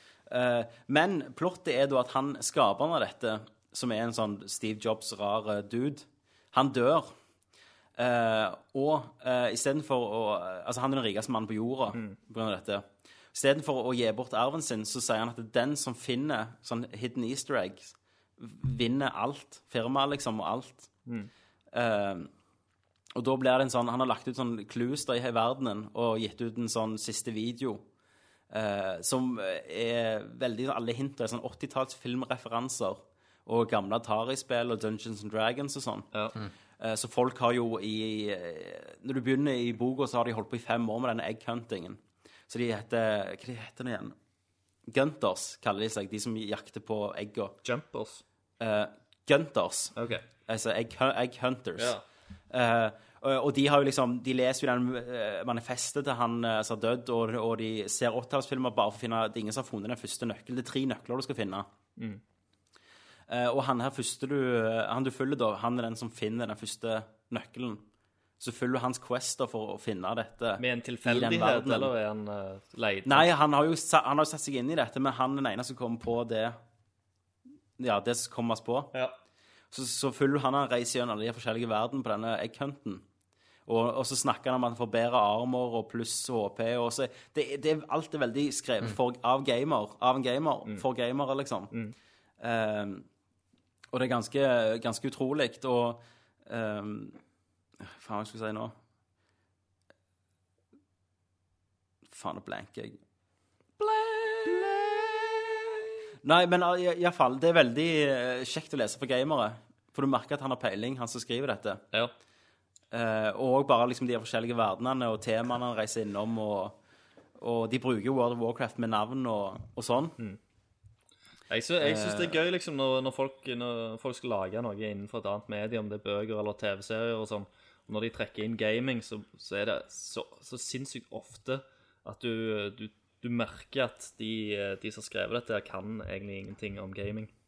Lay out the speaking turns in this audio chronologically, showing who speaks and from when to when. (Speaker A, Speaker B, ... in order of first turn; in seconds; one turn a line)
Speaker A: 0.3-7.1
Speaker A: 8.0-20.9
Speaker B: 21.1-21.3
Speaker A: 21.7-22.3
Speaker A: 23.1-27.9
Speaker A: 28.5-36.1
Speaker A: 36.8-44.1
Speaker A: 44.9-47.6
Speaker B: 47.6-48.2
Speaker A: 48.6-50.0
Speaker B: 50.0-50.2
Speaker A: 50.5-52.0
Speaker B: 51.8-52.0
Speaker A: 52.5-61.7
Speaker A: 63.3-67.8
Speaker A: 68.4-71.9
Speaker B: 70.6-73.3
Speaker A: 73.1-76.6
Speaker A: 77.8-78.9
Speaker A: 79.7-83.0
Speaker A: 83.7-91.7
Speaker A: 92.4-93.1
Speaker A: 93.9-97.2
Speaker A: 97.8-98.7
Speaker A: 102.1-103.0
Speaker A: 103.8-111.8
Speaker A: 112.9-116.8
Speaker A: 117.4-120.2
Speaker B: 121.5-137.3
Speaker A: 121.8-122.4